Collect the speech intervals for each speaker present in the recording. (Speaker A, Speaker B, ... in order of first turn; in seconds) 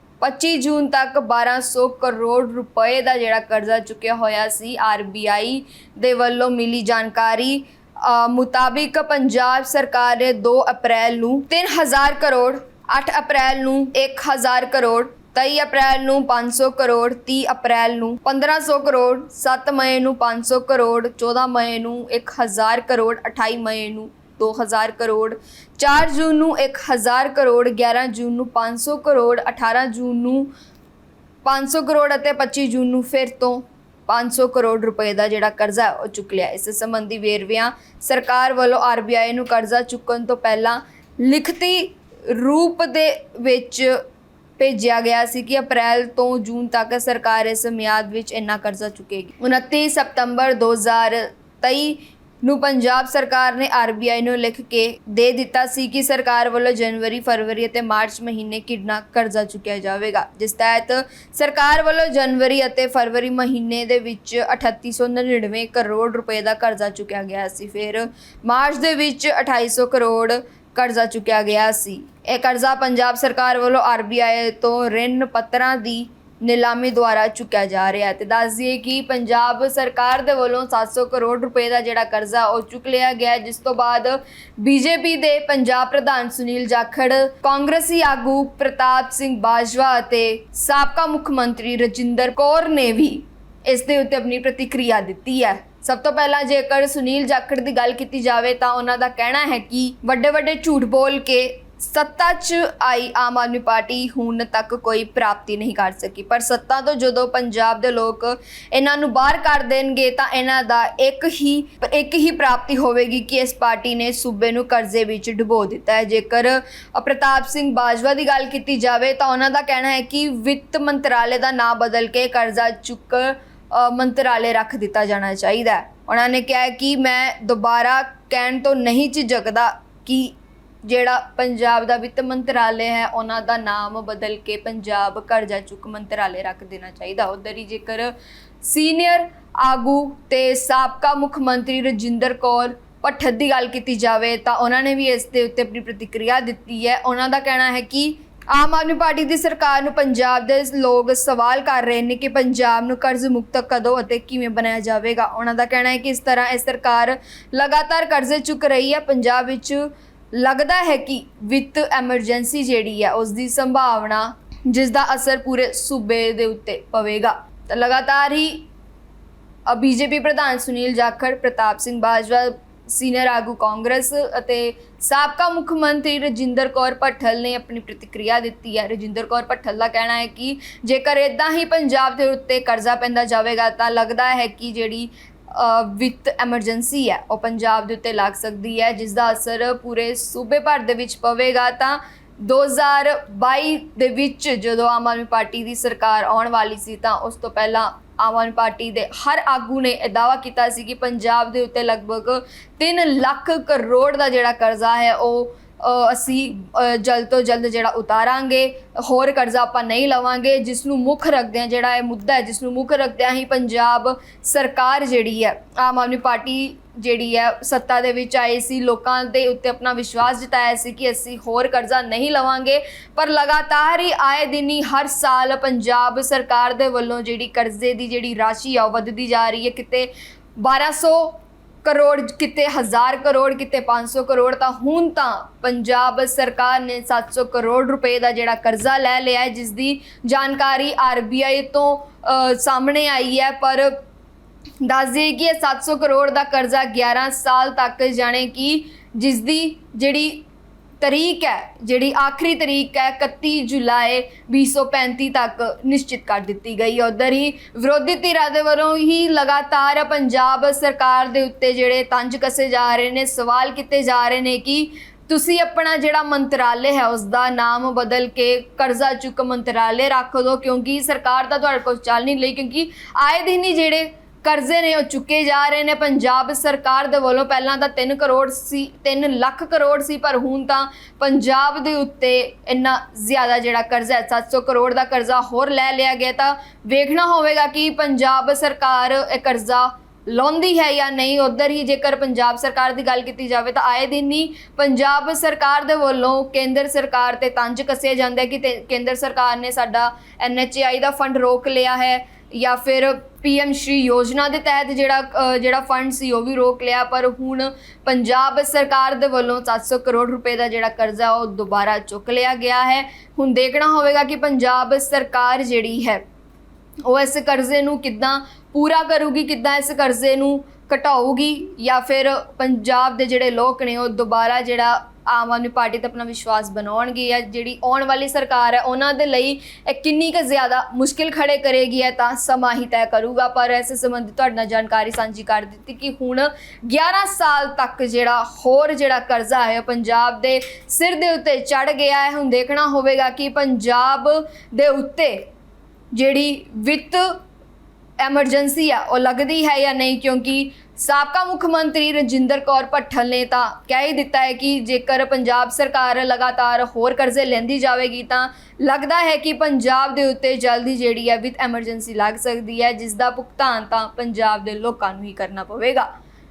Speaker A: 0.2-30.5, 31.4-44.0, 44.6-168.7, 169.7-244.0, 244.8-250.5, 251.0-316.2, 317.1-345.5, 346.1-347.4, 348.2-366.1